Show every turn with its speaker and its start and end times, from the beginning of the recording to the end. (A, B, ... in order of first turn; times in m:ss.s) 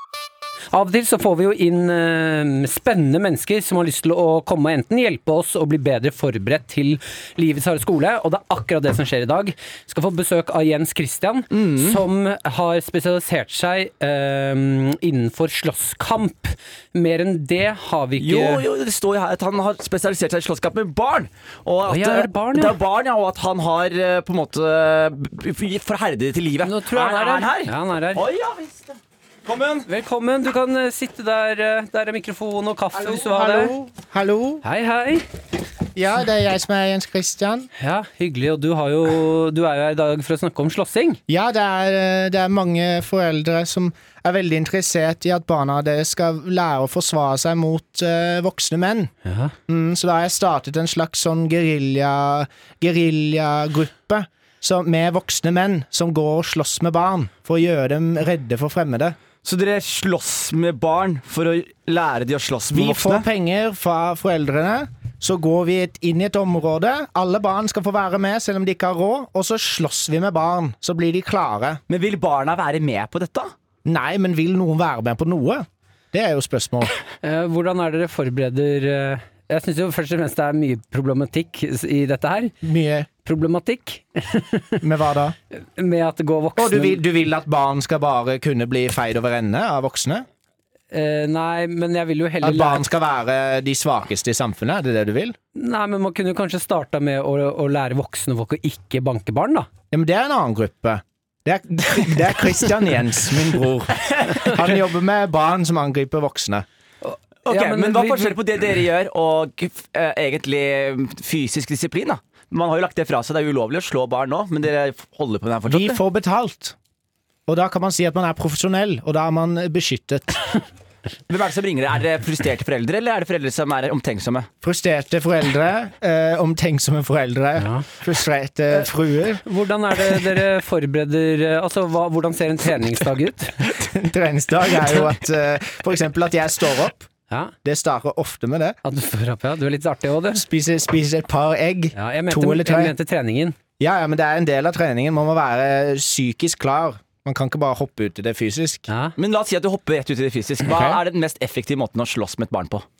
0:00.7-0:18.6 A
0:11.5-0:12.0 B
0:18.2-0:29.9 B
0:21.9-0:22.8 A
0:26.6-0:28.2 A
0:29.9-0:33.7 A
0:33.0-0:34.6 C
0:34.6-0:35.2 A
0:35.9-0:37.7 C
0:37.8-0:41.2 A
0:41.3-0:49.1 C
0:49.2-0:49.5 A
0:49.7-0:59.2 C
0:59.4-1:03.3 B
1:02.7-1:11.8 C
1:11.9-1:13.5 B
1:13.8-1:16.9 C
1:17.2-1:22.5 A
1:22.6-1:23.1 C
1:23.2-1:24.8 A
1:24.8-1:25.3 C
1:25.5-1:27.0 A
1:26.6-1:30.2 C
1:30.9-1:32.9 A
1:32.4-1:35.4 C
1:35.5-1:39.7 A
1:39.9-1:46.6 C
1:44.1-1:44.5 B
1:47.0-1:48.4 A
1:47.4-1:56.0 B
1:55.7-1:56.7 C
1:57.5-2:00.4 C
2:01.3-2:04.5 B
2:04.6-2:09.4 C
2:07.6-2:07.8 A
2:09.4-2:13.7 A
2:13.7-2:17.1 C
2:17.3-2:17.5 A
2:17.6-2:18.8 C
2:18.8-2:20.4 A
2:20.3-2:22.9 C
2:21.9-2:23.6 A
2:23.8-2:28.9 C
2:28.9-2:29.1 A
2:29.2-2:32.8 B
2:30.7-2:31.0 C